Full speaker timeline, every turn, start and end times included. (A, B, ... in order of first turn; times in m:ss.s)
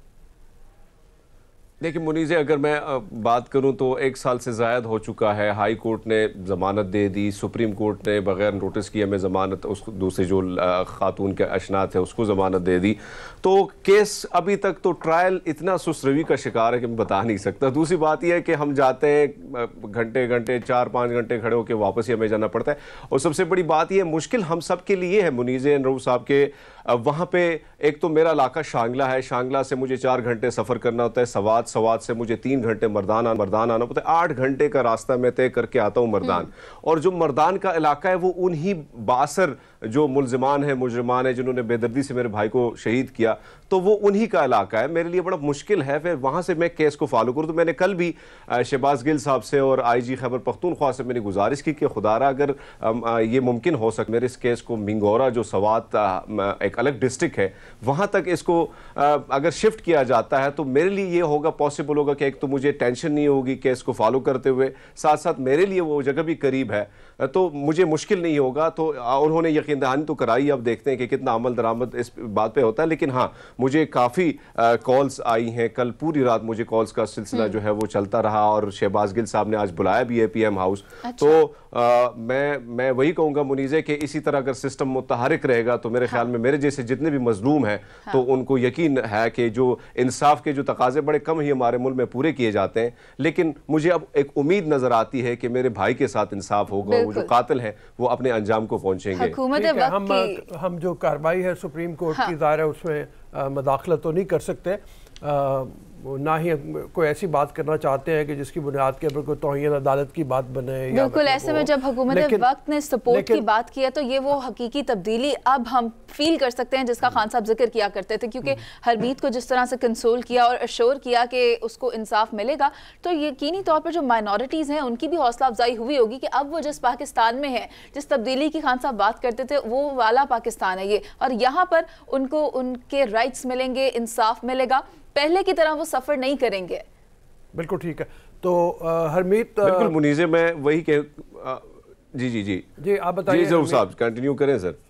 0:01.8-1:39.4 A
1:21.0-1:21.4 B
1:36.8-1:37.3 B
1:39.1-1:40.4 B
1:39.5-1:52.4 C
1:50.9-2:16.8 B
1:53.1-1:53.4 C
2:17.5-2:19.9 C
2:19.6-2:22.6 A
2:22.8-2:23.8 C
2:23.3-2:24.8 A